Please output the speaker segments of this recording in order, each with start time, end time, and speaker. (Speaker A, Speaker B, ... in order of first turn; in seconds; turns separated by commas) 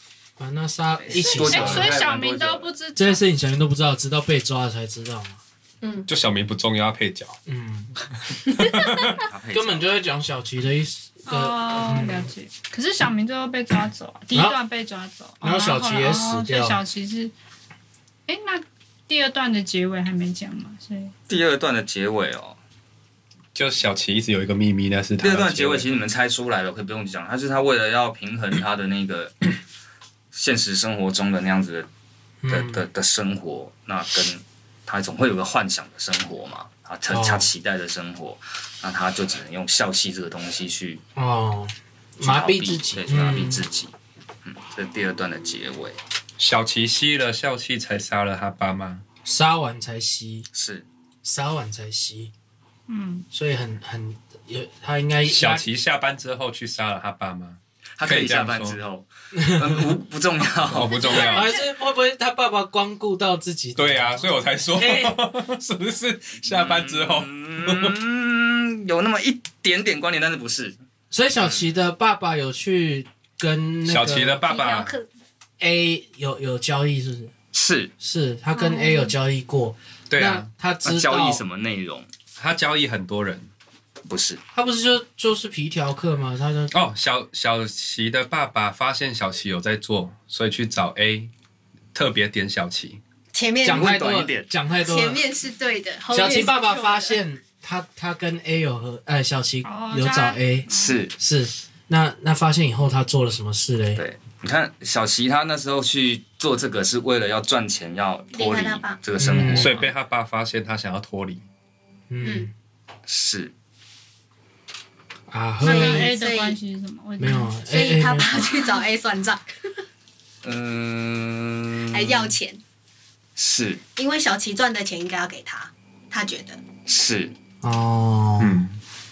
Speaker A: 0.4-2.0, Speaker B: 1.1-2.7, Speaker C: 1.1-3.2, Speaker A: 3.0-5.4, Speaker D: 5.8-6.1, Speaker E: 6.1-7.4, Speaker A: 7.5-7.9, Speaker E: 8.3-9.2, Speaker B: 9.2-9.8, Speaker A: 9.5-12.3, Speaker C: 11.3-17.3, Speaker A: 14.3-14.6, Speaker A: 15.4-16.8, Speaker C: 18.3-21.1, Speaker B: 21.3-22.6, Speaker E: 23.6-25.9, Speaker B: 25.2-29.5, Speaker B: 30.3-31.9, Speaker A: 32.4-32.9, Speaker B: 32.5-41.0, Speaker A: 37.1-37.5, Speaker A: 41.2-43.6, Speaker B: 42.2-43.9, Speaker B: 44.5-46.0, Speaker E: 46.4-49.0, Speaker A: 49.2-50.5, Speaker B: 50.5-50.9, Speaker A: 51.2-52.3, Speaker C: 52.9-53.3, Speaker A: 53.3-55.7, Speaker E: 55.3-58.8, Speaker B: 58.0-61.2, Speaker A: 59.3-60.0, Speaker E: 60.7-61.5, Speaker C: 60.9-61.7, Speaker A: 61.2-65.2, Speaker E: 63.8-68.0, Speaker B: 66.5-70.8, Speaker A: 71.1-74.4, Speaker E: 73.8-75.0, Speaker D: 74.4-75.1, Speaker A: 75.6-77.3, Speaker B: 77.5-77.9, Speaker A: 78.0-81.4, Speaker C: 78.5-79.1, Speaker E: 80.1-80.5, Speaker B: 80.8-82.1, Speaker E: 82.4-83.5, Speaker B: 84.1-84.4, Speaker A: 84.5-86.8, Speaker E: 86.7-91.3, Speaker E: 91.9-93.0, Speaker D: 93.3-93.9, Speaker A: 93.6-95.2, Speaker B: 93.7-94.5, Speaker D: 94.8-97.1, Speaker A: 96.1-104.0, Speaker C: 99.6-101.0, Speaker B: 100.7-101.1, Speaker B: 104.0-109.9, Speaker D: 108.3-109.0, Speaker A: 109.2-109.8, Speaker E: 109.4-111.5, Speaker A: 112.1-112.5, Speaker D: 112.2-112.5, Speaker B: 113.1-113.5, Speaker A: 115.3-116.1, Speaker C: 115.6-117.6, Speaker D: 115.6-116.6, Speaker A: 117.2-118.5, Speaker D: 117.7-119.8, Speaker B: 120.4-122.2, Speaker D: 121.9-122.6, Speaker B: 123.4-123.8, Speaker D: 124.0-126.6, Speaker B: 126.9-127.3, Speaker A: 127.6-128.7, Speaker E: 128.4-128.8